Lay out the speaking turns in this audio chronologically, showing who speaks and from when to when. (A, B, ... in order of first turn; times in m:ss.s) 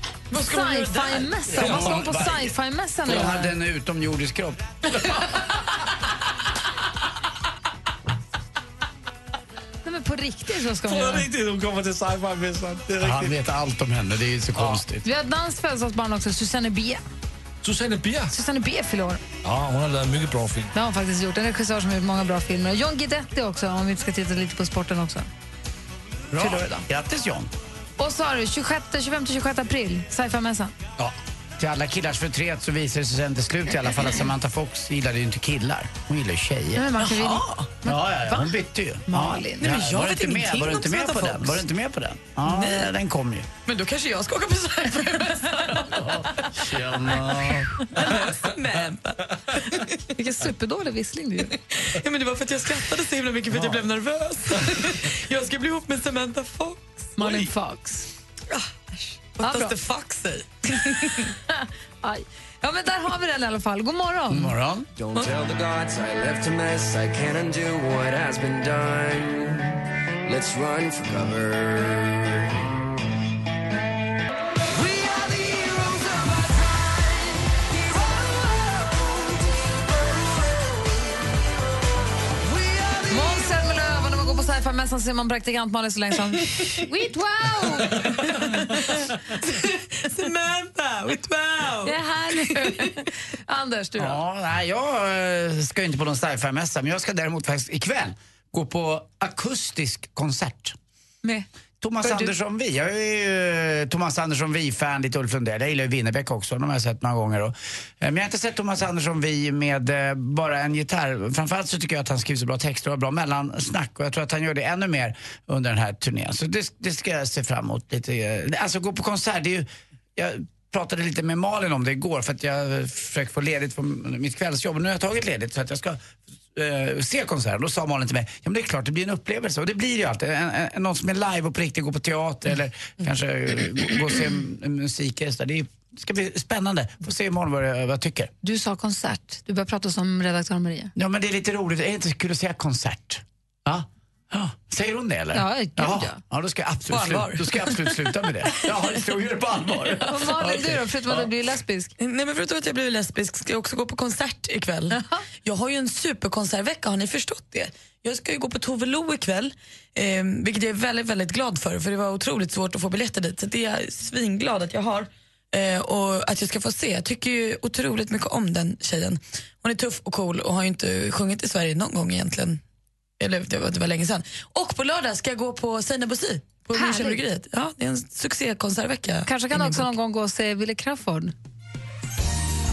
0:00.3-0:01.9 A
0:00.4-0:03.5 B
0:01.5-0:02.5 C
0:01.6-0:02.1 D
0:03.0-0:04.7 C
0:09.8-0:11.3 B
0:10.8-0:13.4 D
0:13.0-0:15.0 C
0:15.0-0:17.0 B
0:17.6-0:18.3 D
0:18.3-0:19.2 B
0:19.4-0:20.7 D
0:20.7-0:25.3 B
0:26.3-0:27.5 C
0:26.4-0:26.8 B
0:28.0-0:30.7 B
0:31.6-0:36.9 C
0:36.7-0:38.5 B
0:37.0-0:37.5 A
0:37.8-0:43.5 C
0:39.1-0:39.7 B
0:39.6-0:41.6 A
0:42.4-0:42.9 A
0:43.6-0:47.1 A
0:45.8-0:47.8 C
0:47.8-0:49.9 A
0:50.1-0:51.5 B
0:51.6-0:57.4 A
0:57.2-0:58.1 B
0:58.5-1:01.3 A
0:59.4-0:59.7 B
1:01.5-1:04.5 B
1:04.3-1:04.9 C
1:05.0-1:12.3 E
1:14.7-1:18.8 E
1:20.4-1:20.7 E
1:22.5-1:23.0 E
1:23.1-1:28.5 B
1:28.8-1:33.0 A
1:31.8-1:34.2 B
1:34.0-1:40.8 C
1:41.8-2:18.3 C
1:42.0-1:42.3 B
2:18.4-2:20.9 B
2:21.0-2:31.3 C
2:25.3-2:26.2 B
2:26.9-2:27.9 A
2:30.1-2:31.9 B
2:32.0-2:52.6 A
2:34.9-2:35.2 B
2:53.2-2:59.9 A
2:56.7-2:57.2 B
2:59.2-3:01.3 B